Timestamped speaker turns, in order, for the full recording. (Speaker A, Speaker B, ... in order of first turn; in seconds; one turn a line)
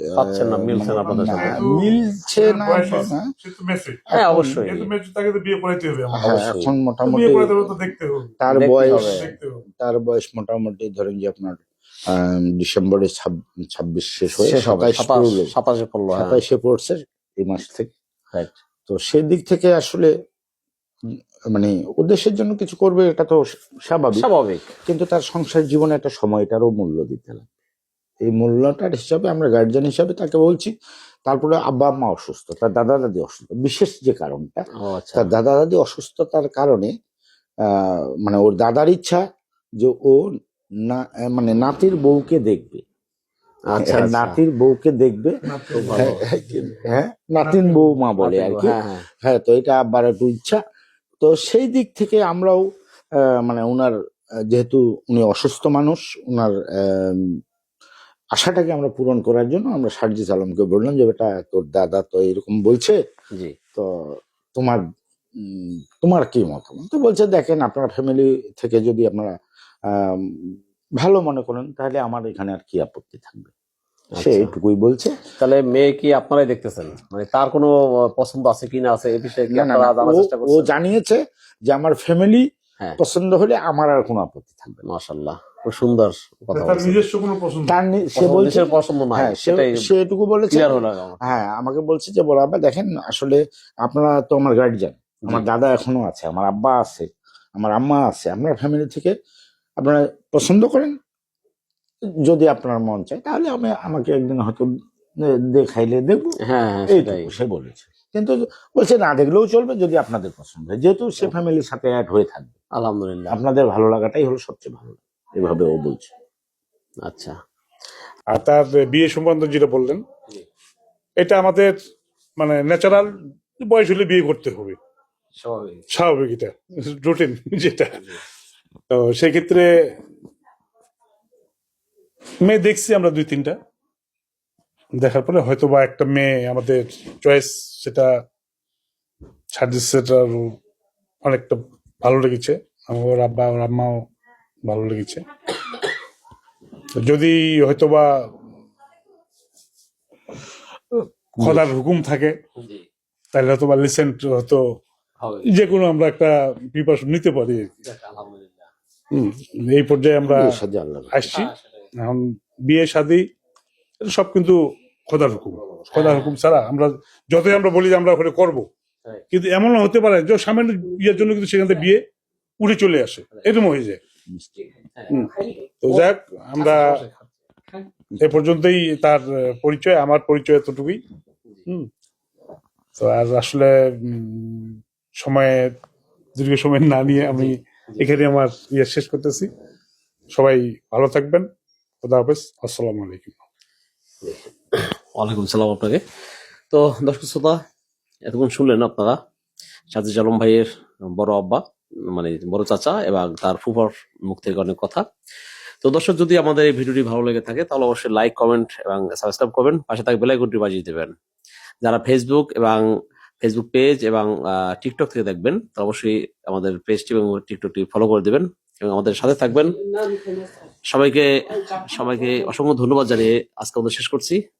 Speaker A: 0.2-1.6
Speaker B: 0.4-3.3
Speaker C: 1.3-4.1
Speaker A: 4.1-4.9
Speaker B: 4.2-4.6
Speaker C: 4.6-9.6
Speaker B: 6.2-7.7
Speaker A: 6.2-6.7
Speaker B: 8.4-15.5
Speaker A: 8.5-9.3
Speaker A: 14.3-16.4
Speaker B: 16.1-17.9
Speaker B: 18.9-20.1
Speaker B: 21.5-24.3
Speaker A: 24.1-24.7
Speaker B: 24.9-27.5
Speaker B: 28.2-30.7
Speaker B: 31.3-34.6
Speaker A: 34.8-35.3
Speaker B: 35.1-36.9
Speaker B: 37.7-39.2
Speaker B: 39.8-40.2
Speaker B: 40.9-42.8
Speaker A: 43.7-44.4
Speaker B: 43.8-50.6
Speaker C: 45.4-46.9
Speaker A: 45.7-46.2
Speaker C: 47.4-48.1
Speaker A: 48.2-49.0
Speaker B: 51.2-52.6
Speaker B: 53.4-53.9
Speaker B: 54.5-57.2
Speaker B: 58.4-63.0
Speaker B: 64.6-64.8
Speaker B: 65.5-69.3
Speaker B: 70.0-70.3
Speaker B: 71.0-73.5
Speaker A: 74.2-74.5
Speaker B: 74.2-75.1
Speaker A: 75.4-80.7
Speaker B: 79.5-82.4
Speaker B: 83.0-84.8
Speaker A: 84.9-87.1
Speaker C: 86.5-87.8
Speaker B: 87.7-99.1
Speaker A: 88.2-89.8
Speaker A: 90.5-91.3
Speaker B: 99.8-101.0
Speaker B: 102.3-104.7
Speaker B: 105.5-106.4
Speaker A: 106.5-107.3
Speaker B: 106.9-112.5
Speaker A: 112.8-113.4
Speaker B: 113.3-116.1
Speaker A: 117.0-117.3
Speaker C: 118.3-120.0
Speaker C: 121.2-121.7
Speaker C: 122.4-124.8
Speaker A: 125.4-125.8
Speaker C: 125.9-128.1
Speaker C: 128.9-129.7
Speaker C: 132.4-133.6
Speaker C: 135.0-138.1
Speaker C: 139.5-140.5
Speaker C: 141.2-144.0
Speaker C: 144.7-145.2
Speaker C: 147.0-148.3
Speaker C: 150.9-152.4
Speaker A: 151.4-151.7
Speaker A: 152.6-152.9
Speaker C: 153.3-154.8
Speaker A: 155.2-155.5
Speaker C: 155.4-157.8
Speaker A: 157.8-158.7
Speaker C: 159.1-160.5
Speaker B: 160.3-161.3
Speaker C: 161.1-163.3
Speaker A: 161.3-161.9
Speaker C: 164.0-164.6
Speaker C: 165.1-168.7
Speaker A: 165.9-166.4
Speaker C: 169.3-172.1
Speaker C: 172.6-174.0
Speaker A: 173.3-173.6
Speaker B: 174.3-174.7
Speaker A: 174.9-175.3
Speaker C: 175.1-177.0
Speaker A: 176.6-177.3
Speaker C: 178.2-181.0
Speaker C: 183.0-185.8
Speaker C: 186.4-189.5
Speaker A: 187.3-187.6
Speaker C: 190.3-191.5
Speaker C: 192.0-193.4
Speaker A: 194.2-196.0
Speaker A: 196.7-197.6
Speaker A: 198.3-199.2
Speaker A: 199.9-205.0
Speaker A: 205.8-211.1
Speaker A: 211.8-212.8
Speaker A: 213.4-224.4